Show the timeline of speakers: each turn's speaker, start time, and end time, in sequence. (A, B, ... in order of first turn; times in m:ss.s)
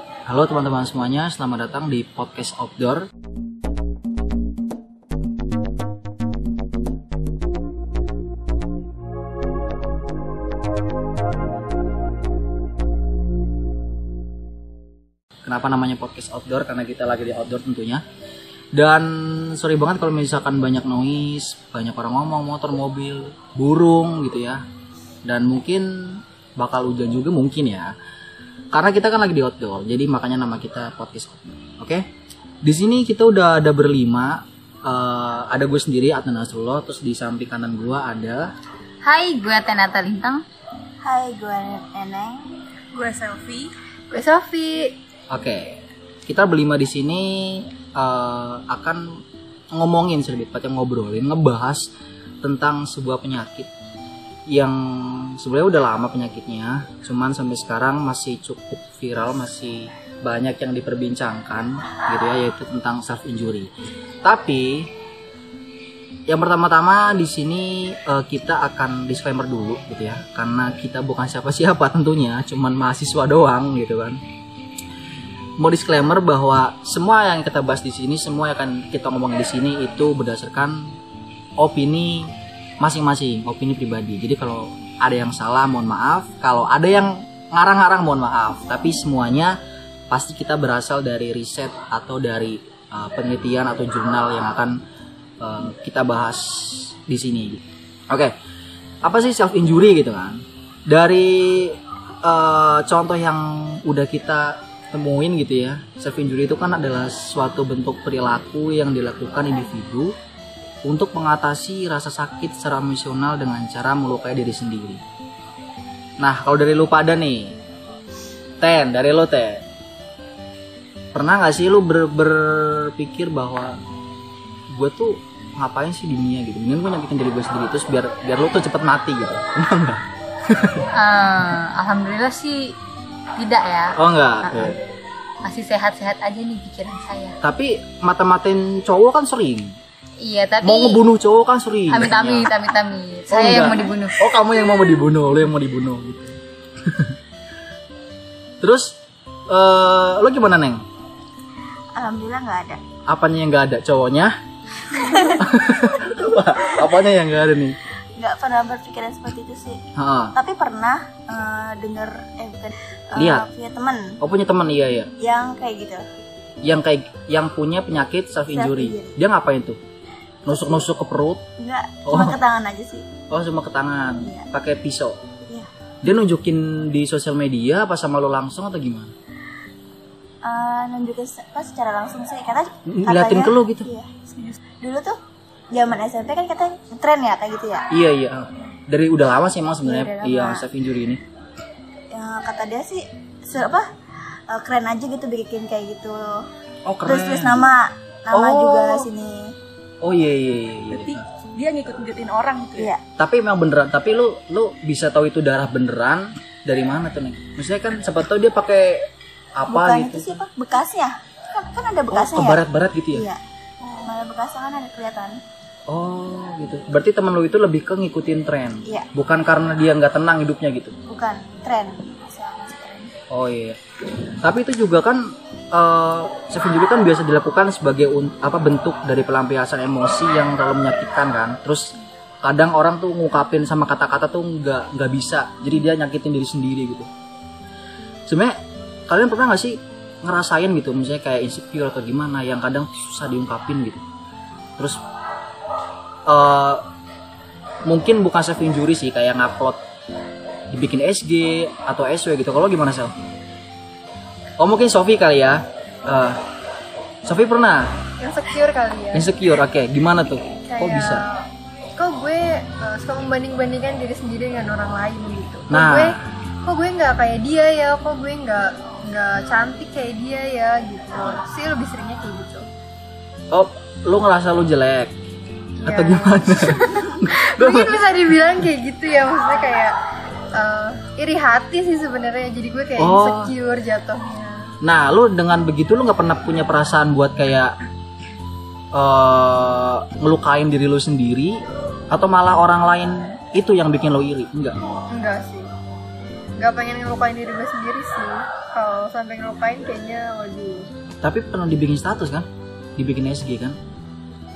0:00.2-0:03.1 A
0:15.4-0:18.0 A
0:18.7-0:24.6 A
0:25.2-0:27.9 A
0:28.7-0:32.0 A
0:32.6-0:38.5 A
0:39.0-0:40.4 B
0:41.0-0:42.6 C
0:42.9-0:43.7 D
0:44.1-0:44.9 E
0:45.3-0:49.0 A
0:49.7-0:51.9 A
0:52.4-0:53.7 A
0:54.5-1:03.7 A
1:04.2-1:04.9 A
1:06.3-1:14.2 A
1:15.6-1:21.0 A
1:21.6-1:29.6 A
1:30.1-1:34.8 A
1:35.4-1:38.3 A
1:39.0-1:50.1 A
1:50.8-1:55.0 A
1:56.2-1:57.6 A
1:58.6-1:59.6 A
2:01.1-2:03.8 A
2:04.7-2:10.8 A
2:10.9-2:12.8 B
2:13.4-2:14.8 B
2:14.0-2:14.8 A
2:15.4-2:17.4 B
2:17.4-2:19.8 A
2:20.2-2:21.0 B
2:20.6-2:22.5 A
2:21.9-2:24.2 B
2:23.3-2:27.2 A
2:28.6-2:29.0 A
2:29.5-2:30.8 A
2:31.9-2:32.8 C
2:33.1-2:34.3 A
2:34.9-2:35.4 C
2:35.0-2:37.8 A
2:38.2-2:44.2 C
2:40.0-2:40.3 A
2:43.1-2:43.5 A
2:44.2-2:45.1 A
2:45.2-2:46.0 C
2:46.6-2:49.8 A
2:48.5-2:49.2 C
2:50.4-2:51.4 A
2:50.5-2:50.8 C
2:51.6-2:53.1 C
2:52.0-2:52.4 A
2:53.3-2:55.2 A
2:56.0-2:59.1 A
3:00.4-3:04.2 C
3:02.9-3:03.9 A
3:04.8-3:05.2 C
3:05.7-3:07.9 C
3:07.9-3:11.2 A
3:09.8-3:10.6 C
3:12.1-3:16.4 C
3:16.8-3:17.7 A
3:17.0-3:19.5 C
3:18.3-3:19.1 A
3:20.0-3:21.2 A
3:20.9-3:22.9 D
3:23.2-3:30.3 A
3:29.7-3:35.4 C
3:32.1-3:33.3 A
3:35.9-3:40.9 A
3:41.1-3:43.1 C
3:43.3-3:43.8 A
3:44.4-3:57.1 A
3:58.3-3:58.6 A
3:59.1-4:04.0 A
4:06.3-4:06.8 A
4:07.8-4:09.8 A
4:10.7-4:13.1 A
4:14.6-4:16.4 A
4:17.2-4:17.9 A
4:18.2-4:19.2 E
4:19.1-4:21.2 A
4:20.6-4:32.7 E
4:25.7-4:26.2 A
4:33.5-4:35.1 A
4:35.8-4:39.9 E
4:35.8-4:38.0 A
4:40.5-4:44.7 E
4:43.0-4:43.5 A
4:44.8-4:47.7 A
4:48.9-4:51.6 A
4:52.1-4:54.8 A
4:55.1-4:55.7 E
4:56.6-5:00.9 E
5:01.2-5:03.8 A